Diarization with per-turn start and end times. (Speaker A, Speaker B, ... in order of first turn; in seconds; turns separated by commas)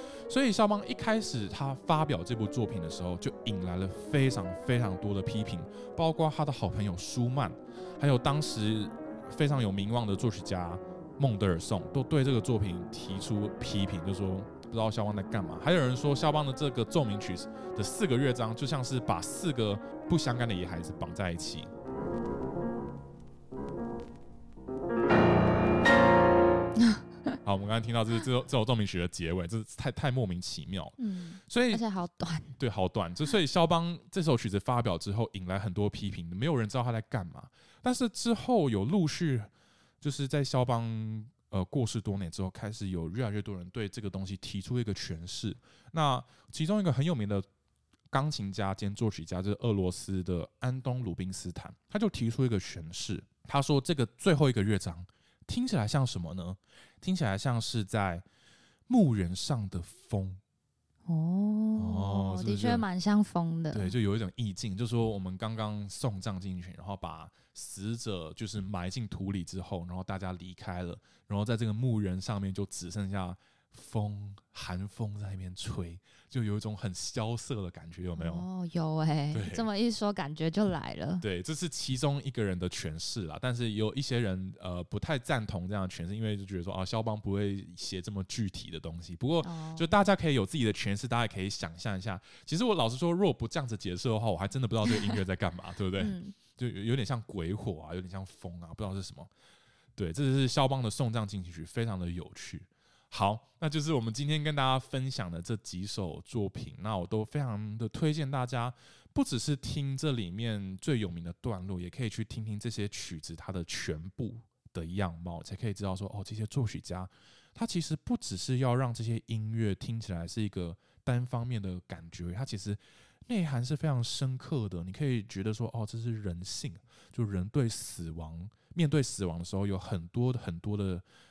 Speaker A: 0.3-21.7, Speaker B: 26.8-27.3, Speaker A: 27.4-31.8, Speaker B: 31.0-32.5, Speaker A: 32.6-39.5, Speaker A: 40.0-47.5, Speaker A: 48.1-58.2, Speaker A: 58.9-60.4, Speaker B: 61.1-63.9, Speaker A: 61.8-62.9, Speaker A: 63.7-78.5, Speaker B: 78.2-81.2, Speaker A: 79.3-79.7, Speaker A: 81.2-99.3, Speaker B: 89.4-89.9, Speaker B: 96.0-96.4, Speaker A: 100.0-131.0